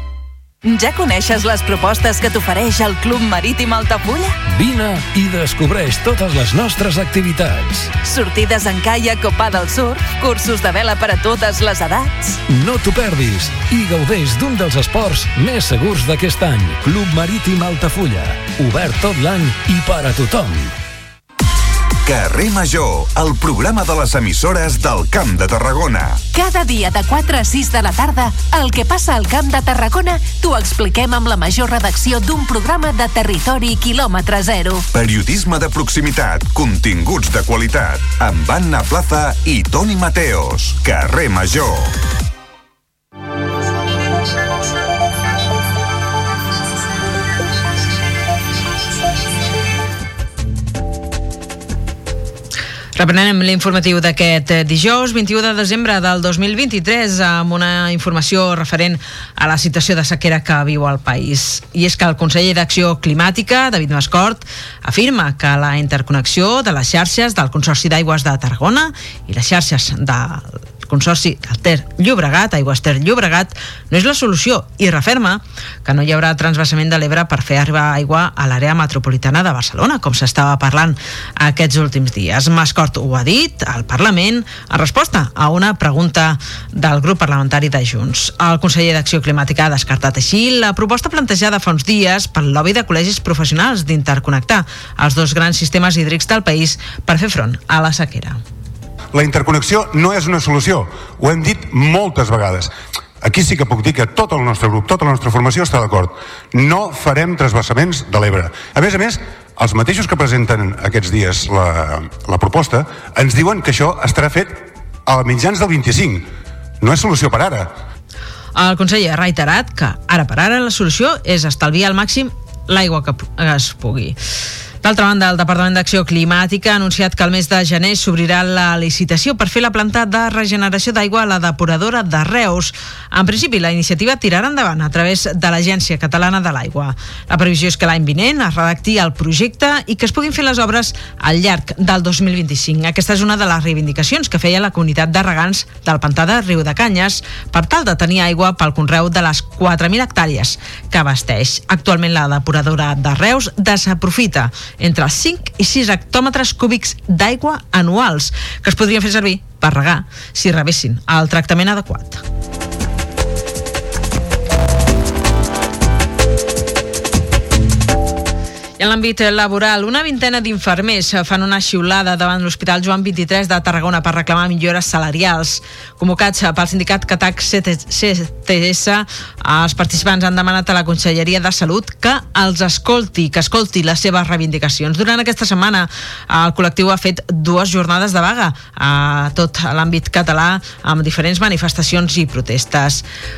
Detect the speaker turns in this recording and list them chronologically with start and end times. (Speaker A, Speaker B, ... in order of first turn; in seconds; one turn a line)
Speaker A: 0.6-4.4
Speaker B: 4.5-7.9
Speaker A: 8.0-12.4
Speaker B: 12.5-20.7
Speaker C: 22.1-26.2
Speaker D: 26.3-34.9
Speaker C: 34.9-41.9
Speaker E: 53.0-98.4
Speaker F: 99.1-102.7
Speaker F: 103.2-116.3
Speaker F: 116.8-117.7
Speaker E: 118.5-124.2
Speaker E: 124.8-162.2
Speaker E: 168.8-193.0